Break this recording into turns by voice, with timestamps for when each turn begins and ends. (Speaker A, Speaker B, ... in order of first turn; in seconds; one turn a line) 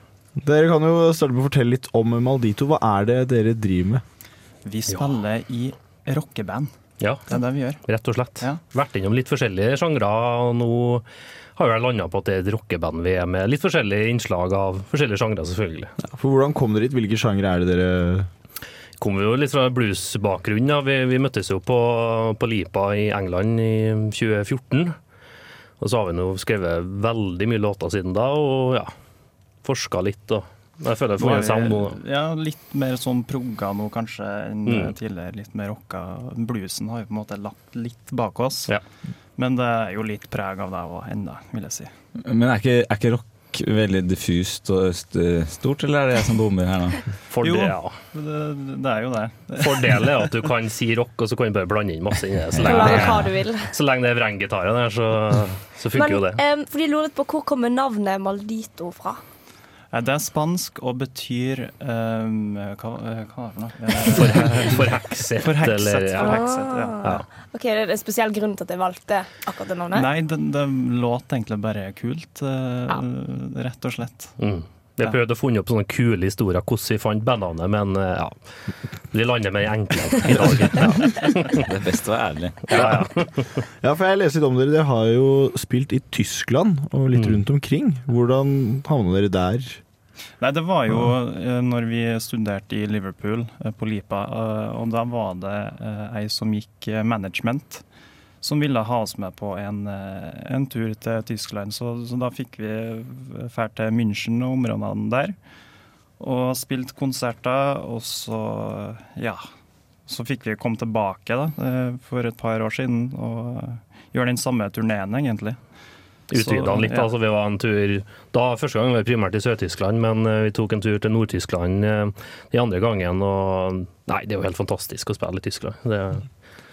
Speaker A: 0.4-4.0
Speaker B: 4.7-6.8
Speaker C: 4.9-5.2
Speaker C: 7.0-11.1
Speaker B: 7.3-7.8
Speaker C: 11.6-15.9
Speaker A: 16.0-18.3
Speaker C: 19.0-25.0
Speaker C: 25.8-28.9
Speaker C: 29.6-32.0
Speaker B: 31.2-38.8
Speaker C: 34.7-35.0
Speaker B: 39.4-41.9
Speaker D: 42.2-47.0
Speaker C: 47.3-48.0
Speaker B: 47.4-50.1
Speaker C: 49.6-56.4
Speaker E: 52.6-53.7
Speaker E: 55.9-59.2
Speaker B: 59.9-67.1
Speaker C: 64.0-66.5
Speaker E: 66.2-70.1
Speaker B: 69.9-74.4
Speaker C: 74.4-78.3
Speaker C: 79.1-81.7
Speaker D: 81.7-82.9
Speaker C: 82.7-83.3
Speaker A: 83.8-89.8
Speaker C: 87.1-87.4
Speaker B: 90.4-97.8
Speaker B: 98.4-105.4
Speaker B: 106.2-109.5
Speaker B: 110.1-115.6
Speaker C: 116.3-126.3
Speaker B: 116.3-117.1